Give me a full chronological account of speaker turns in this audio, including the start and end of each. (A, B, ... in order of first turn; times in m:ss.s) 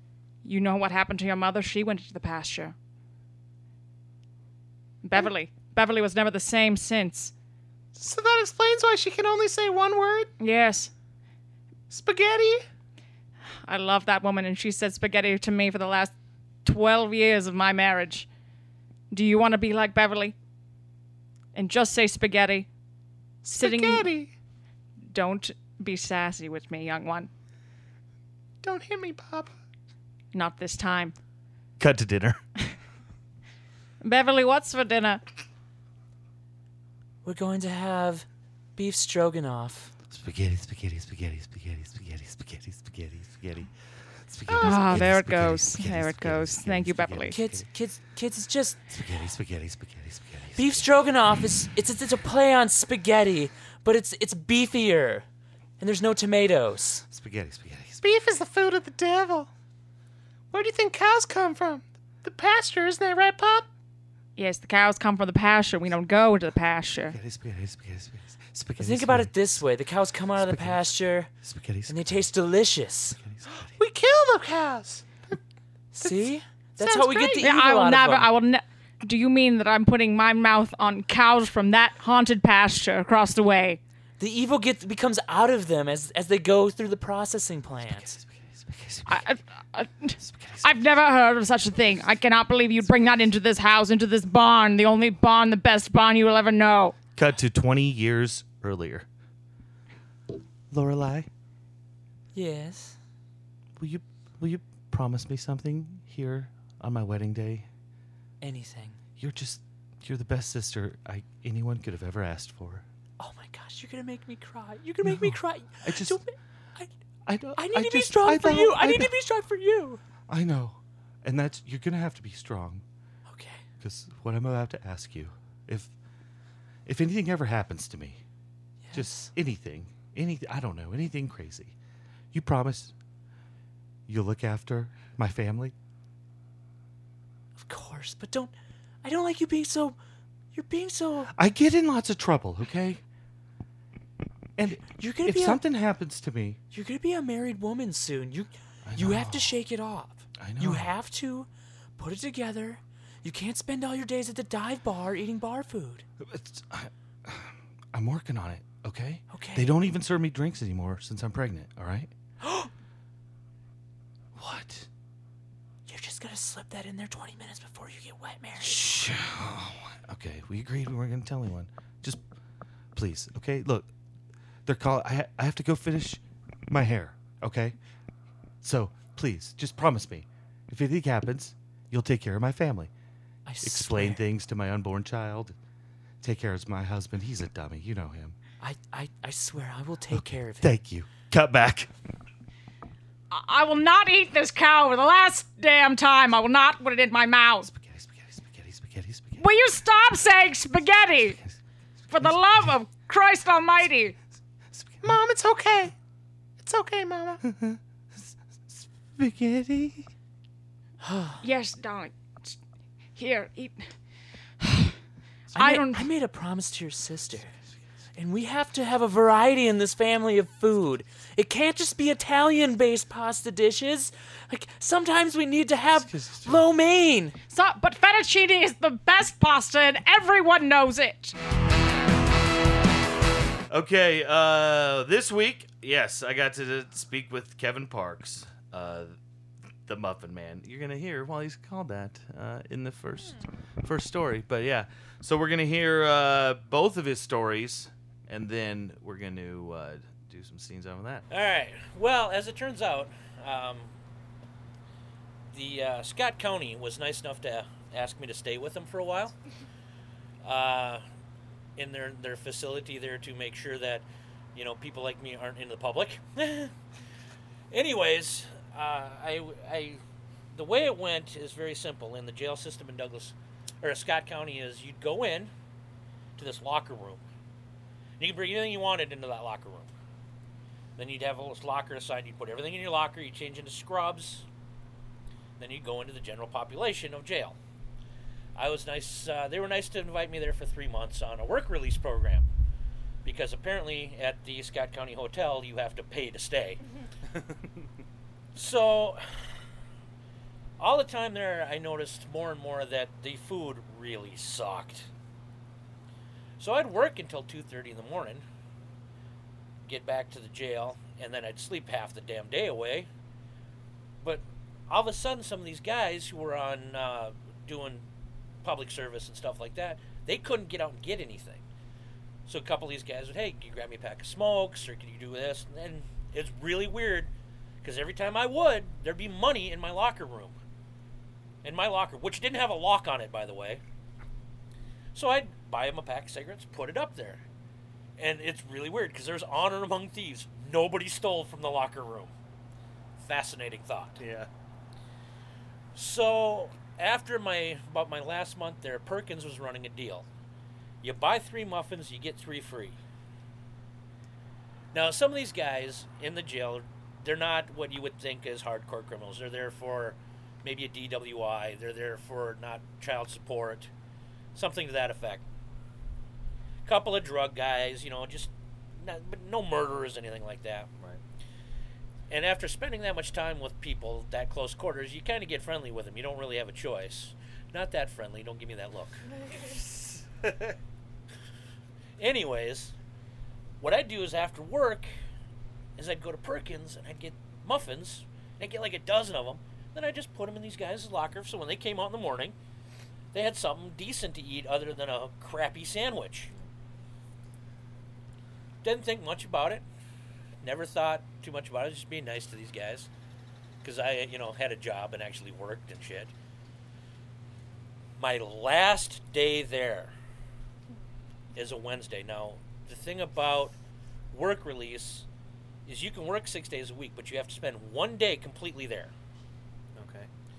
0:00.4-0:02.7 A
0:05.0-0:07.3 A
0:08.0-0:10.3 B
0:10.4-0:10.9 A
0:11.9-0:12.6 B
0:13.6-0:16.1 A
0:16.6-0:18.3 A
0:19.1-0:20.3 A
0:21.6-0:22.7 A
0:23.4-0:24.3 B
0:23.5-0:24.1 A
0:25.1-0:27.3 A
0:28.6-0:29.5 B
0:30.3-0:31.1 A
0:31.8-0:32.4 C
0:34.0-0:35.2 A
0:37.2-0:39.9 D
0:40.1-0:43.7 C
0:44.2-0:47.7 C
0:44.5-0:45.0 B
0:44.6-0:47.4 A
0:47.3-0:48.8 D
0:48.9-0:50.9 C
0:50.6-0:55.2 D
0:55.8-0:57.0 D
0:57.1-0:58.0 C
0:58.0-0:59.5 B
1:00.5-1:03.7 B
1:04.4-1:07.2 A
1:07.1-1:09.6 C
1:08.8-1:11.3 D
1:10.4-1:12.2 C
1:11.9-1:13.2 D
1:13.2-1:13.7 C
1:13.8-1:15.4 B
1:15.9-1:18.3 D
1:16.0-1:17.5 B
1:17.3-1:23.8 A
1:24.2-1:28.2 D
1:27.9-1:29.2 C
1:29.1-1:37.0 A
1:30.2-1:30.7 C
1:37.2-1:39.1 C
1:40.7-1:41.3 C
1:42.3-1:43.0 D
1:43.8-1:47.7 C
1:48.4-1:49.0 D
1:49.2-1:52.8 C
1:53.2-1:56.9 D
1:55.0-1:56.2 C
1:57.3-1:59.1 C
1:57.6-2:00.0 D
2:00.3-2:02.8 C
2:03.3-2:03.6 D
2:03.8-2:05.9 C
2:06.9-2:08.2 C
2:08.8-2:09.3 D
2:08.9-2:11.7 C
2:12.3-2:12.9 C
2:14.1-2:15.7 C
2:17.6-2:20.0 D
2:20.5-2:21.3 D
2:21.3-2:23.0 C
2:24.6-2:26.6 C
2:24.8-2:25.6 D
2:26.7-2:36.0 D
2:28.9-2:29.6 C
2:30.4-2:30.9 C
2:36.2-2:42.1 C
2:39.3-2:39.7 D
2:42.4-2:42.7 D
2:44.4-2:44.9 C
2:45.9-2:48.8 D
2:48.6-2:52.2 C
2:53.0-2:53.9 C
2:54.7-2:57.8 C
2:58.6-3:02.9 C
3:03.5-3:04.2 D
3:03.6-3:05.6 C
3:06.2-3:08.4 C
3:08.6-3:10.8 D
3:10.1-3:11.9 C
3:13.3-3:17.7 A
3:17.6-3:19.4 C
3:19.4-3:21.4 A
3:22.1-3:24.2 A
3:22.2-3:22.7 C
3:24.8-3:25.2 C
3:25.0-3:25.9 B
3:26.6-3:27.4 B
3:27.4-3:30.1 C
3:31.0-3:31.4 D
3:31.4-3:32.6 A
3:33.2-3:33.8 A
3:34.6-3:34.9 A
3:35.5-3:37.5 D
3:35.6-3:36.1 A
3:38.2-3:47.4 D
3:46.0-3:46.6 C
3:47.5-3:51.4 A
3:53.7-3:59.2 C
3:59.9-4:11.2 C
4:11.3-4:13.9 E
4:15.5-4:19.4 E
4:20.4-4:21.0 E
4:21.8-4:26.7 E
4:27.7-4:30.0 E
4:30.5-4:35.5 E
4:36.4-4:37.2 E
4:38.2-4:39.9 E
4:41.0-4:44.4 E
4:45.6-4:47.6 E
4:48.6-4:52.5 E
4:53.2-4:56.8 E
4:58.6-4:59.2 E
5:00.8-5:05.1 E
5:06.6-5:08.4 E
5:09.8-5:13.1 E
5:14.2-5:18.0 E
5:18.6-5:21.6 E
5:22.5-5:27.3 E
5:27.8-5:30.5 E
5:31.6-5:33.8 E
5:35.2-5:37.4 E
5:38.2-5:42.3 E
5:43.2-5:44.2 E
5:44.2-5:44.5 C
5:46.0-5:50.3 E
5:51.0-5:53.0 E
5:54.9-6:03.9 E
6:04.6-6:05.4 E
6:06.8-6:10.9 E
6:12.3-6:19.2 E
6:22.2-6:22.9 E
6:23.8-6:25.1 E
6:26.0-6:32.6 E
6:33.3-6:36.5 E
6:38.8-6:39.8 E
6:40.6-6:43.1 E
6:43.8-6:46.3 E
6:48.2-6:50.1 E
6:51.6-6:53.8 E
6:54.3-6:55.3 E
6:55.9-6:59.1 E
7:00.0-7:00.3 B